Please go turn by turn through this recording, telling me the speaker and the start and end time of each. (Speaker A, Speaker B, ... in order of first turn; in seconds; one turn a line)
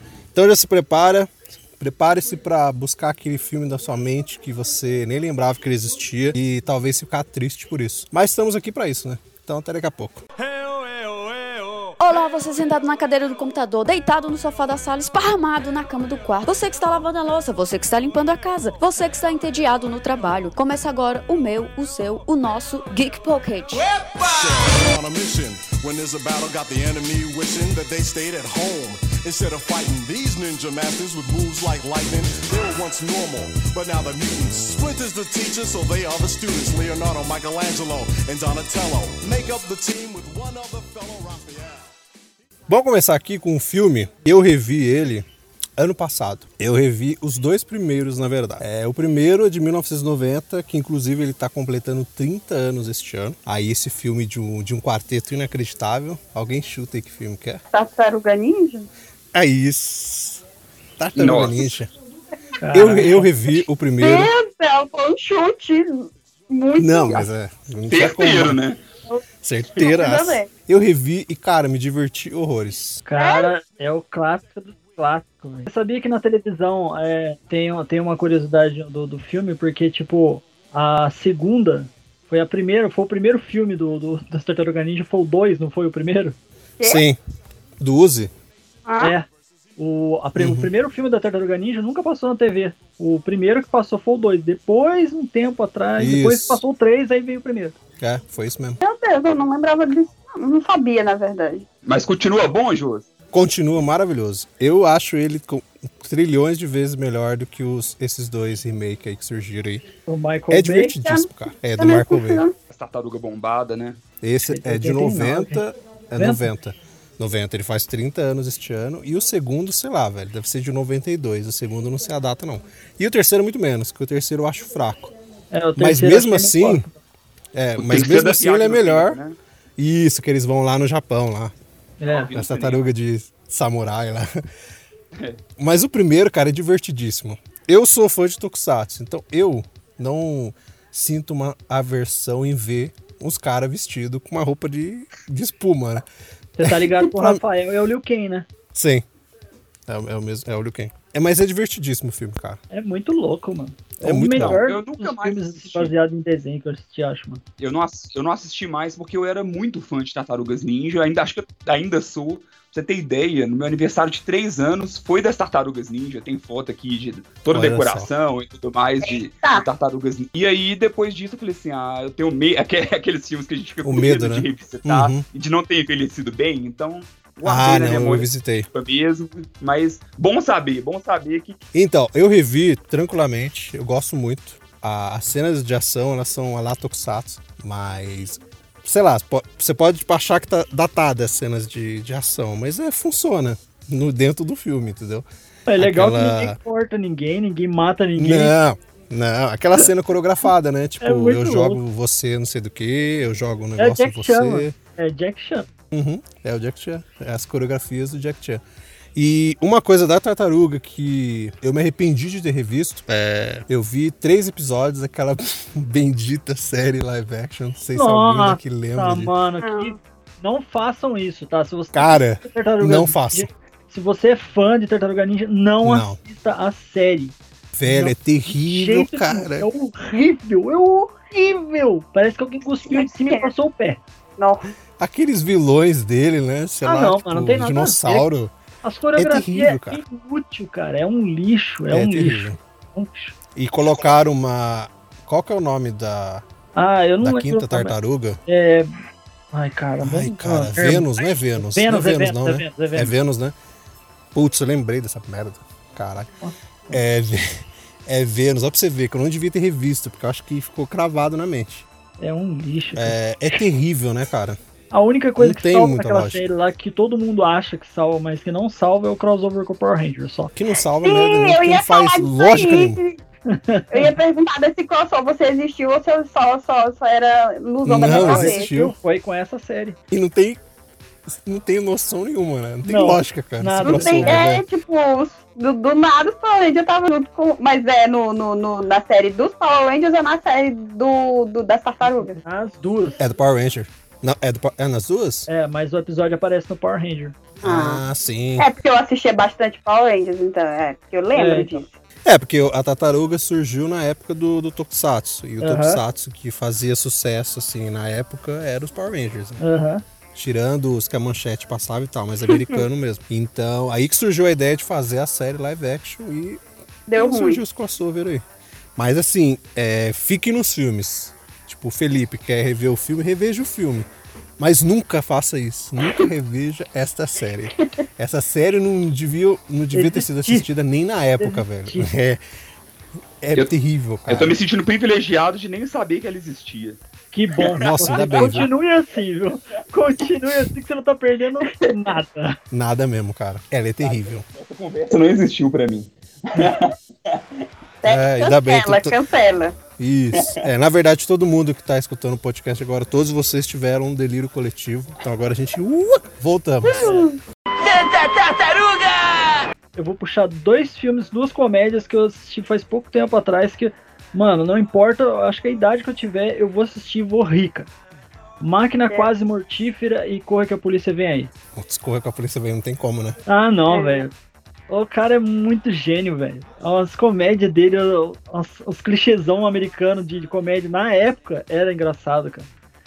Speaker A: 0.3-10.2
Speaker B: 10.4-11.9
Speaker C: 12.0-24.0
Speaker B: 23.9-41.9
Speaker A: 42.7-57.6
Speaker D: 57.7-58.9
Speaker A: 59.3-60.4
Speaker A: 61.0-61.9
Speaker E: 61.1-61.7
Speaker F: 62.6-63.3
Speaker A: 62.7-64.3
Speaker D: 64.0-67.3
Speaker A: 66.8-68.6
Speaker E: 67.9-68.8
Speaker A: 69.4-73.0
Speaker D: 69.8-70.5
Speaker F: 73.0-86.3
Speaker D: 73.2-73.5
Speaker A: 86.8-87.2
Speaker A: 87.8-88.3
Speaker D: 88.9-89.1
Speaker F: 89.0-97.7
Speaker A: 90.4-90.7
Speaker A: 96.0-96.6
Speaker A: 98.0-98.8
Speaker D: 98.8-101.6
Speaker E: 101.8-103.1
Speaker A: 103.3-109.9
Speaker F: 110.0-110.9
Speaker A: 110.5-112.4
Speaker D: 110.9-112.5
Speaker E: 112.7-114.0
Speaker A: 114.2-125.1
Speaker F: 114.4-115.6
Speaker F: 116.2-116.5
Speaker F: 125.5-126.9
Speaker A: 125.8-126.8
Speaker A: 127.5-129.2
Speaker E: 127.8-129.4
Speaker A: 129.8-131.5
Speaker F: 132.0-132.3
Speaker E: 132.1-132.8
Speaker A: 132.3-134.4
Speaker A: 135.6-146.1
Speaker F: 146.6-148.5
Speaker A: 146.6-147.4
Speaker A: 148.7-149.0
Speaker A: 149.9-152.6
Speaker F: 152.7-157.4
Speaker A: 154.0-154.6
Speaker E: 154.4-155.9
Speaker E: 157.6-181.6
Speaker A: 167.5-168.1
Speaker D: 169.0-169.7
Speaker A: 173.8-175.2
Speaker A: 177.4-178.7
Speaker A: 181.7-196.6
Speaker F: 195.7-198.5
Speaker A: 198.2-204.7
Speaker F: 201.0-201.8
Speaker F: 203.8-205.7
Speaker A: 205.9-208.6
Speaker A: 209.2-219.3
Speaker F: 217.9-234.0
Speaker D: 219.6-219.9
Speaker A: 221.9-223.5
Speaker A: 225.8-226.2
Speaker A: 227.7-229.7
Speaker D: 232.8-233.5
Speaker D: 234.4-234.7
Speaker A: 235.0-238.5
Speaker F: 236.8-238.2
Speaker F: 238.8-243.3
Speaker A: 239.2-240.0
Speaker A: 241.9-242.6
Speaker A: 243.5-246.4
Speaker F: 246.8-249.0
Speaker A: 247.2-248.4
Speaker F: 249.5-253.1
Speaker A: 250.0-253.5
Speaker A: 254.3-256.3
Speaker F: 256.4-257.0
Speaker A: 256.9-261.9
Speaker F: 262.2-263.2
Speaker A: 262.9-264.6
Speaker F: 264.9-270.5
Speaker A: 265.4-266.4
Speaker A: 270.5-273.0
Speaker D: 271.0-273.2
Speaker F: 273.5-274.1
Speaker D: 273.9-278.7
Speaker A: 277.8-278.9
Speaker F: 278.0-280.0
Speaker A: 280.1-280.6
Speaker A: 281.2-284.6
Speaker F: 282.8-284.4
Speaker D: 283.8-292.4
Speaker F: 292.0-293.2
Speaker A: 293.2-295.5
Speaker F: 295.5-297.4
Speaker D: 297.6-298.0
Speaker A: 297.6-298.7
Speaker D: 298.6-301.9
Speaker F: 301.3-301.8
Speaker A: 302.2-309.6
Speaker F: 305.6-306.0
Speaker F: 309.6-310.0
Speaker A: 310.3-316.6
Speaker D: 317.1-317.6
Speaker A: 317.1-318.4
Speaker A: 318.9-324.1
Speaker A: 324.6-332.4
Speaker F: 329.9-330.6
Speaker F: 331.4-332.1
Speaker A: 333.4-334.5
Speaker E: 334.3-337.0
Speaker F: 337.3-342.6
Speaker E: 337.6-338.4
Speaker A: 337.8-338.7
Speaker A: 342.7-344.4
Speaker E: 344.0-347.6
Speaker D: 348.0-349.8
Speaker A: 348.0-349.1
Speaker A: 350.0-357.1
Speaker E: 350.3-350.6
Speaker D: 356.9-357.2
Speaker F: 357.0-357.3
Speaker F: 359.9-367.9
Speaker F: 368.6-371.5
Speaker A: 371.7-373.4
Speaker F: 373.5-374.3
Speaker D: 373.9-374.2
Speaker F: 374.9-382.7